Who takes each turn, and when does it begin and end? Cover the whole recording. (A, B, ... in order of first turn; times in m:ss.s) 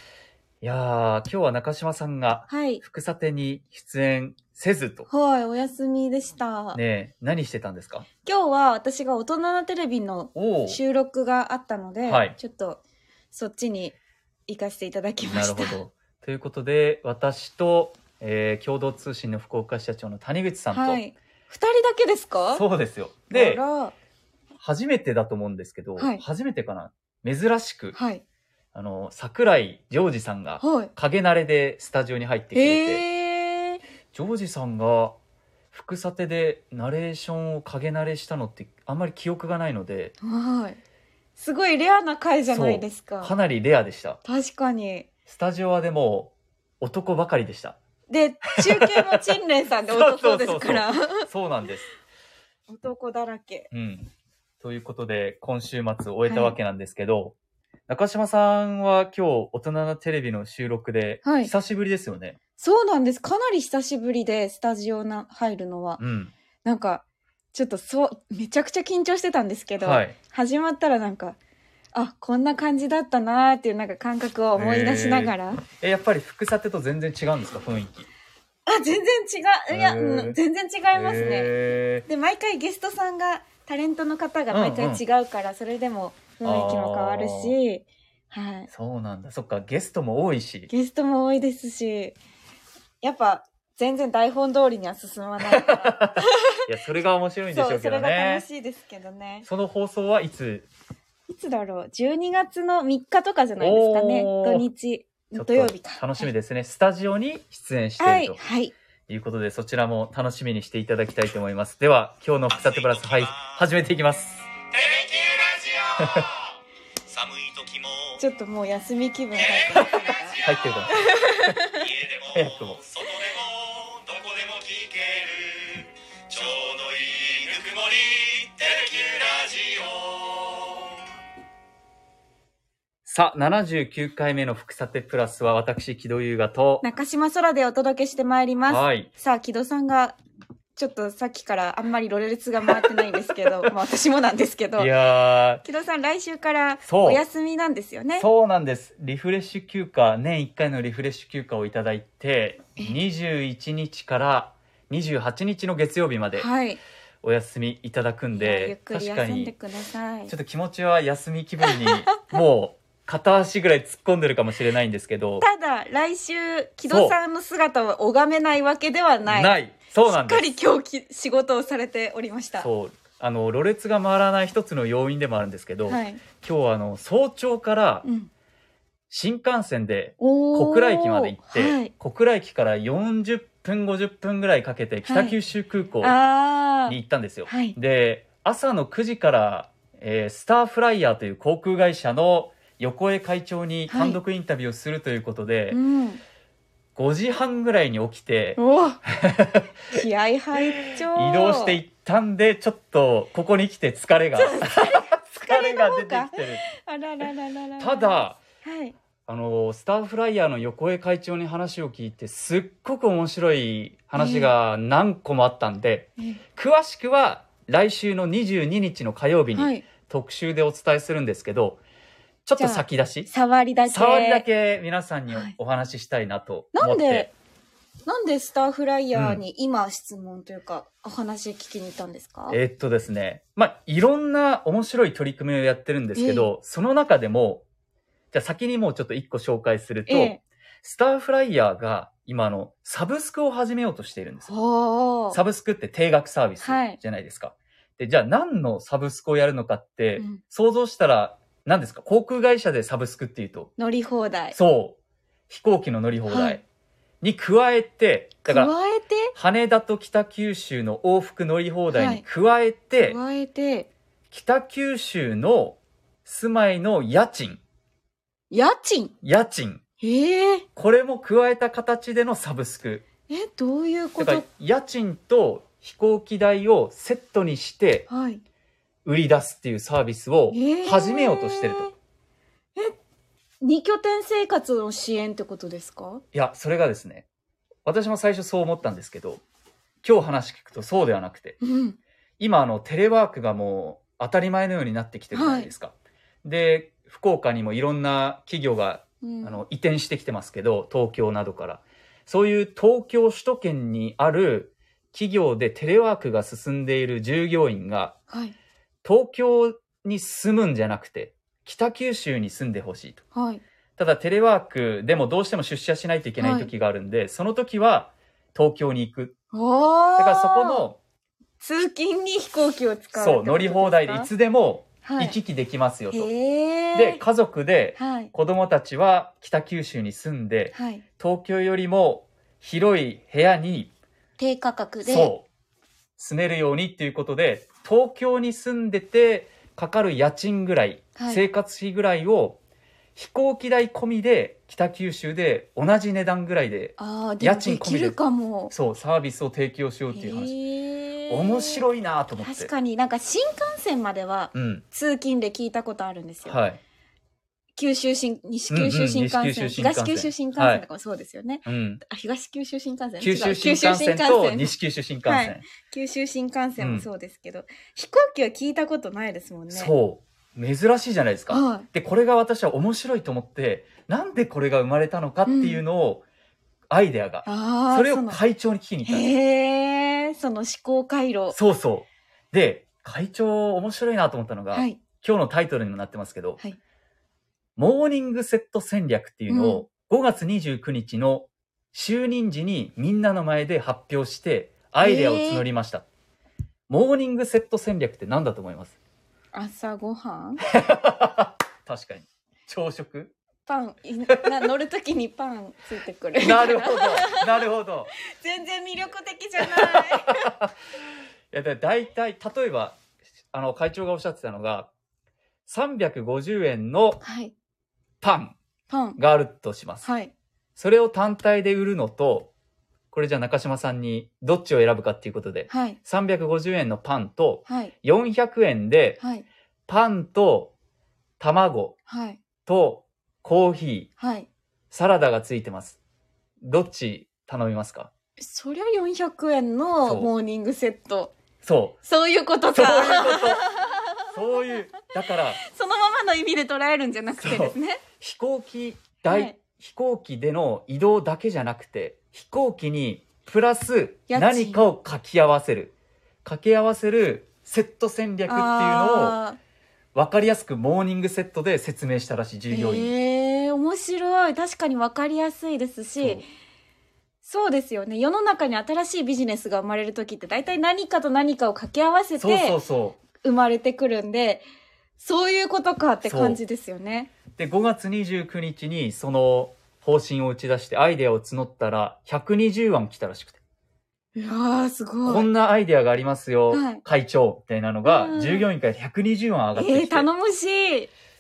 0:00.6-0:05.1 A
0:02.5-0:02.8 B
0:05.1-0:06.8 B
0:06.7-0:08.1 A
0:08.2-0:14.0 B
0:10.4-0:10.8 A
0:12.0-0:12.4 A
0:14.5-0:15.8 B
0:15.2-0:21.0 A
0:20.7-0:22.6 B
0:22.5-0:23.6 A
0:23.3-0:23.9 B
0:24.6-0:28.0 A
0:26.0-0:26.2 B
0:27.9-0:28.2 B
0:28.7-0:33.0 A
0:30.6-0:30.9 B
0:32.5-0:33.8 B
0:34.1-0:35.2 A
0:35.7-0:40.1 A
0:40.2-0:40.8 B
0:41.4-0:43.3 B
0:42.5-0:44.2 A
0:44.2-0:45.1 B
0:45.3-0:47.8 A
0:48.1-0:51.3 B
0:48.6-0:49.2 A
0:49.9-0:51.9 A
0:52.7-0:53.7 B
0:53.7-0:54.1 A
0:54.6-0:57.4 A
0:56.3-0:56.6 B
0:57.9-1:02.4 A
1:01.2-1:01.5 B
1:02.6-1:06.0 B
1:06.0-1:06.3 A
1:06.6-1:11.4 B
1:09.8-1:10.2 A
1:11.9-1:15.6 B
1:14.6-1:18.1 A
1:18.7-1:21.5 B
1:19.7-1:20.4 A
1:20.9-1:22.1 A
1:22.0-1:28.7 B
1:24.5-1:25.0 A
1:26.4-1:27.6 A
1:28.7-1:30.7 A
1:30.7-1:32.2 B
1:33.0-1:36.6 B
1:35.6-1:38.4 A
1:37.5-1:39.5 B
1:39.4-1:40.7 A
1:41.3-1:46.3 B
1:43.6-1:44.7 A
1:45.4-1:48.4 A
1:48.0-1:48.7 B
1:49.1-1:54.4 A
1:55.0-1:55.7 C
1:56.0-1:56.3 A
1:57.4-1:57.8 A
1:58.2-2:01.9 B
1:59.8-2:03.3 A
2:04.0-2:05.7 C
2:06.3-2:09.9 C
2:06.3-2:06.6 A
2:13.1-2:16.8 A
2:16.8-2:20.2 B
2:18.7-2:19.1 A
2:20.8-2:25.0 B
2:24.8-2:25.6 A
2:25.6-2:28.3 B
2:26.8-2:27.2 A
2:28.2-2:36.5 A
2:36.4-2:36.8 B
2:37.2-2:39.5 A
2:38.3-2:40.3 B
2:40.3-2:45.4 A
2:41.6-2:42.3 B
2:45.4-2:52.7 B
2:46.9-2:47.2 A
2:49.3-2:50.5 A
2:52.6-2:58.1 A
2:55.9-2:56.2 B
2:58.0-2:58.3 B
2:59.1-3:06.2 A
3:00.2-3:01.9 B
3:05.1-3:05.4 B
3:06.0-3:07.8 B
3:06.9-3:15.8 A
3:13.9-3:14.2 B
3:15.7-3:16.2 B
3:17.0-3:20.0 A
3:18.6-3:19.0 B
3:19.9-3:21.8 B
3:20.6-3:26.7 A
3:24.4-3:29.0 B
3:27.8-3:28.4 A
3:29.3-3:41.8 A
3:34.2-3:34.5 B
3:39.5-3:39.8 B
3:42.5-3:43.3 A
3:42.6-3:44.4 B
3:43.9-3:47.3 A
3:45.3-3:45.6 B
3:46.7-3:47.3 B
3:48.1-3:52.6 B
3:49.1-3:49.4 A
3:52.5-3:57.7 A
3:56.2-3:56.5 B
3:58.3-4:04.5 A
4:00.1-4:00.4 B
4:04.5-4:05.4 B
4:05.3-4:13.7 A
4:06.6-4:07.0 B
4:13.8-4:14.6 B
4:14.5-4:15.0 A
4:15.5-4:16.6 A
4:16.3-4:16.6 B
4:17.2-4:18.7 A
4:18.4-4:19.3 B
4:19.4-4:23.2 A
4:21.9-4:22.2 B
4:23.0-4:23.9 B
4:24.3-4:27.6 A
4:28.5-4:29.1 B
4:29.2-4:29.8 A
4:30.0-4:30.7 B
4:30.8-4:33.0 A
4:33.3-4:34.5 B
4:34.2-4:38.1 A
4:38.1-4:38.4 B
4:39.0-4:41.9 A
4:40.5-4:41.9 B
4:43.6-4:46.2 B
4:46.3-4:47.3 A
4:47.8-4:49.4 A
4:50.0-4:51.6 A
4:51.6-4:52.0 B
4:52.4-5:08.2 A
4:55.3-4:55.7 B
4:59.2-4:59.6 B
5:08.3-5:08.6 B
5:09.0-5:13.2 A
5:13.3-5:13.6 B
5:14.0-5:19.3 A
5:16.4-5:16.7 B
5:19.5-5:20.9 B
5:20.2-5:21.0 A
5:21.6-5:24.3 B
5:23.2-5:26.3 A
5:25.0-5:25.4 B
5:26.1-5:27.2 B
5:26.9-5:33.9 A
5:28.0-5:28.3 B
5:30.7-5:31.0 B
5:34.4-5:35.3 B
5:35.0-5:35.5 A
5:36.2-5:42.6 A
5:41.2-5:41.4 B
5:43.2-5:48.2 A
5:47.0-5:48.7 B
5:48.7-5:50.5 A
5:50.1-5:51.8 B
5:51.3-5:52.7 A
5:52.4-5:56.6 B
5:54.5-5:54.8 A
5:56.5-5:56.8 A
5:57.8-6:04.7 B
5:58.7-6:00.8 A
6:01.6-6:02.0 A
6:03.2-6:05.6 A
6:05.3-6:09.9 B
6:06.8-6:07.1 A
6:09.7-6:16.2 A
6:11.5-6:11.9 B
6:15.5-6:15.8 B
6:16.9-6:19.3 A
6:17.4-6:18.4 B
6:19.1-6:21.6 B
6:21.5-6:26.6 A
6:24.7-6:25.0 B
6:27.8-6:36.1 A
6:29.5-6:29.8 B
6:35.0-6:35.7 B
6:36.9-6:39.0 A
6:39.5-6:40.6 B
6:40.7-6:43.3 A
6:43.7-6:47.5 B
6:46.4-6:48.1 A
6:48.3-6:50.4 B
6:49.8-6:50.7 A
6:51.5-6:53.0 A
6:53.5-6:54.9 A
6:55.7-6:57.2 A
6:57.2-6:57.5 B
6:58.2-6:58.6 A
6:58.9-6:59.2 B
6:59.2-7:00.1 A
7:00.0-7:00.3 B
7:00.8-7:02.5 A
7:03.1-7:09.2 A
7:05.7-7:06.0 B
7:07.7-7:07.9 B
7:09.2-7:09.4 B
7:09.9-7:10.7 A
7:11.4-7:12.0 A
7:12.1-7:12.4 B
7:12.7-7:14.1 A
7:14.2-7:14.5 B
7:14.9-7:16.0 A
7:16.6-7:18.1 A
7:18.4-7:21.3 B
7:21.6-7:22.0 A
7:22.0-7:24.6 B
7:22.7-7:23.6 A
7:24.3-7:25.6 A
7:25.6-7:28.0 B
7:27.4-7:35.9 A
7:29.3-7:29.6 B
7:34.3-7:34.8 B
7:36.4-7:39.4 A
7:38.5-7:39.6 B
7:40.2-7:43.1 A
7:42.7-7:46.4 B
7:46.2-7:46.5 A
7:47.4-7:52.8 B
7:52.4-7:53.2 A
7:53.4-7:54.6 B
7:55.2-7:57.3 B
7:56.2-7:56.6 A
7:57.6-8:03.6 A
8:04.4-8:05.5 B
8:05.3-8:10.3 A
8:06.7-8:07.0 B
8:08.0-8:08.7 B
8:09.8-8:11.1 B